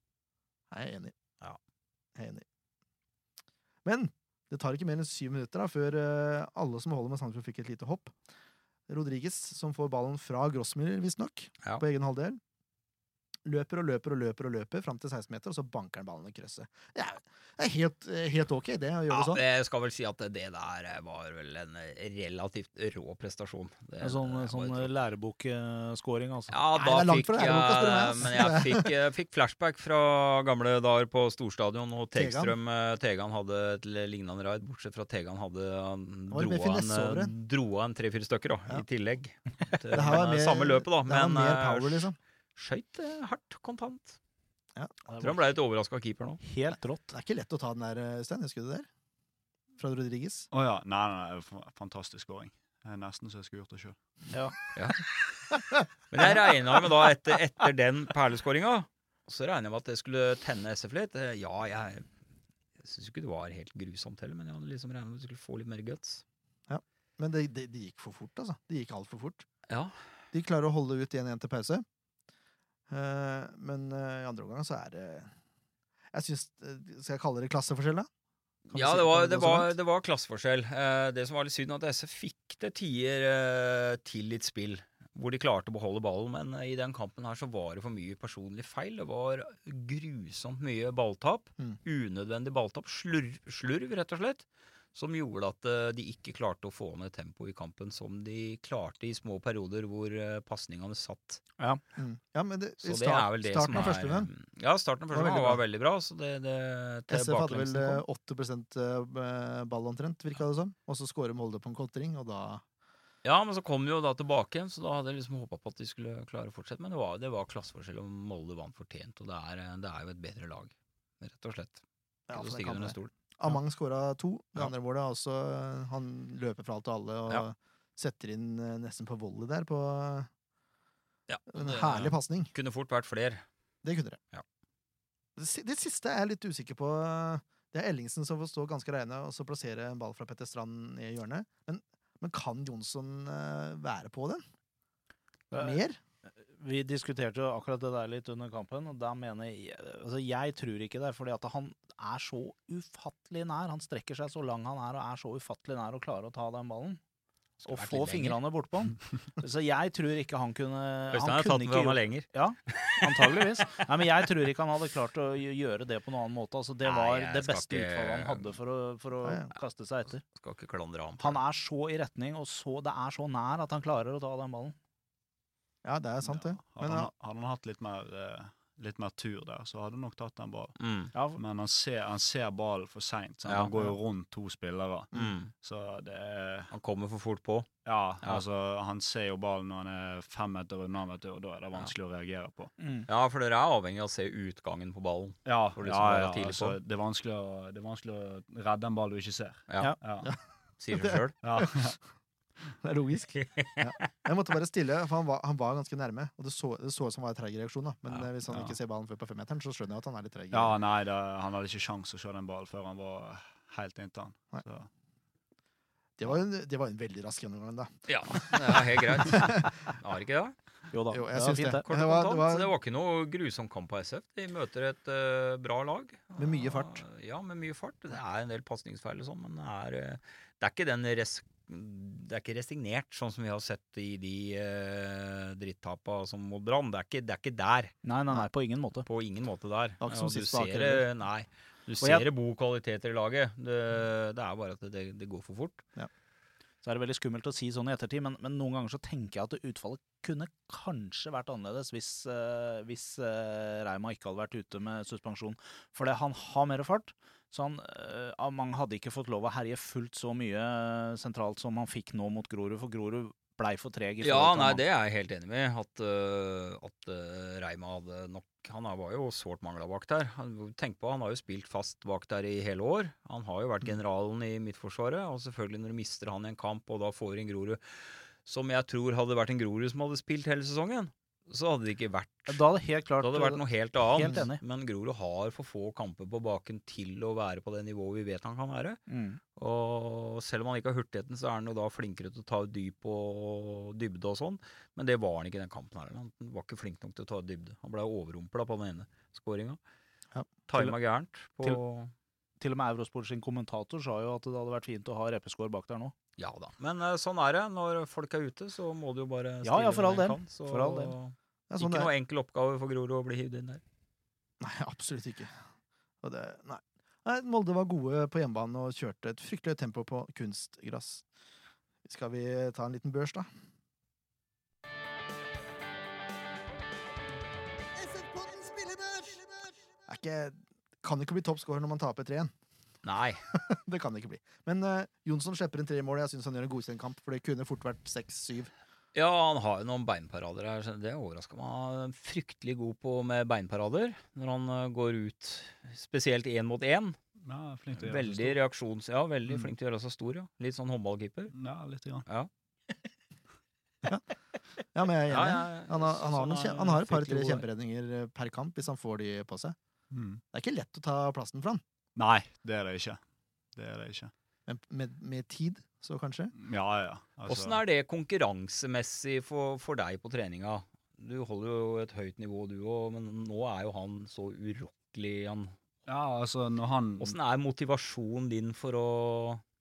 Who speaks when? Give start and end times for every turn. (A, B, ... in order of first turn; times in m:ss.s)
0:00.7-0:01.2 A
0:02.2-0:02.4 A
0:03.8-0:08.2 A
0:08.9-0:12.4 A
0:13.4-0:19.4 A
0:19.1-0:24.9 B
0:24.0-0:26.6 C
0:26.5-0:44.2 B
0:26.7-0:28.9 A
0:32.1-0:32.6 A
0:36.3-0:37.3 A
0:39.9-0:42.2 A
0:45.1-0:45.4 C
0:45.2-0:46.4 B
0:46.4-0:47.1 C
0:47.1-0:48.9 A
0:49.8-0:50.5 A
0:50.5-0:54.0 D
0:54.8-0:55.0 B
0:56.1-1:02.0 B
1:02.8-1:06.2 B
1:06.7-1:09.5 A
1:09.7-1:10.0 B
1:10.3-1:11.8 A
1:12.9-1:15.3 A
1:16.1-1:18.1 A
1:18.7-1:19.7 A
1:18.7-1:41.4 B
1:42.0-1:44.3 A
1:42.8-1:48.0 B
1:45.1-1:45.6 A
1:47.1-1:52.6 A
1:53.2-2:01.8 B
2:02.3-2:10.3 A
2:02.3-2:03.6 B
2:11.3-2:13.4 B
2:11.5-2:12.5 A
2:13.8-2:14.2 A
2:15.4-2:24.4 A
2:25.5-2:25.8 C
2:25.5-2:26.0 A
2:26.5-2:37.0 C
2:37.6-2:38.4 B
2:37.6-2:50.2 C
2:41.1-2:43.8 B
2:46.8-2:48.5 B
2:49.2-2:49.5 A
2:50.2-2:51.4 B
2:51.2-2:54.8 C
2:55.8-2:57.1 A
2:56.2-3:00.8 D
3:00.8-3:01.1 B
3:01.1-3:01.4 C
3:01.3-3:06.7 D
3:03.5-3:03.7 B
3:05.1-3:05.5 B
3:06.7-3:07.7 B
3:07.8-3:12.7 D
3:12.8-3:13.1 C
3:13.1-3:16.8 B
3:15.5-3:20.3 D
3:19.7-3:20.0 B
3:20.8-3:21.4 B
3:20.9-3:21.9 A
3:21.4-3:22.0 D
3:22.8-3:30.8 A
3:23.4-3:24.1 B
3:28.5-3:28.8 D
3:30.5-3:34.9 D
3:36.2-3:39.9 A
3:38.1-3:40.6 B
3:40.9-3:41.8 C
3:41.1-3:42.7 A
3:41.8-3:58.0 B
3:46.4-3:47.0 A
3:58.0-3:59.1 C
3:59.1-4:05.8 B
4:00.0-4:01.0 A
4:02.0-4:02.3 C
4:06.8-4:24.8 C
4:24.2-4:42.6 B
4:42.5-4:44.6 C
4:43.2-4:49.0 B
4:49.1-4:49.4 C
4:49.6-4:59.8 B
5:00.7-5:02.1 B
5:02.6-5:06.1 C
5:06.4-5:13.8 B
5:09.6-5:11.1 C
5:11.7-5:12.1 A
5:14.6-5:15.6 A
5:16.2-5:21.2 A
5:22.0-5:23.5 A
5:28.1-5:29.4 A
5:30.1-5:32.5 A
5:33.0-5:33.4 B
5:33.5-5:38.7 A
5:39.2-5:47.2 B
5:47.4-5:48.6 D
5:48.0-5:51.5 B
5:49.5-5:49.7 D
5:51.5-5:52.3 D
5:54.9-5:59.8 A
5:55.3-5:57.6 B
6:00.1-6:00.4 D
6:00.5-6:01.8 A
6:02.2-6:03.2 D
6:03.8-6:04.3 D
6:04.7-6:06.5 A
6:06.5-6:07.8 D
6:07.5-6:15.8 B
6:16.1-6:17.4 D
6:17.2-6:19.6 B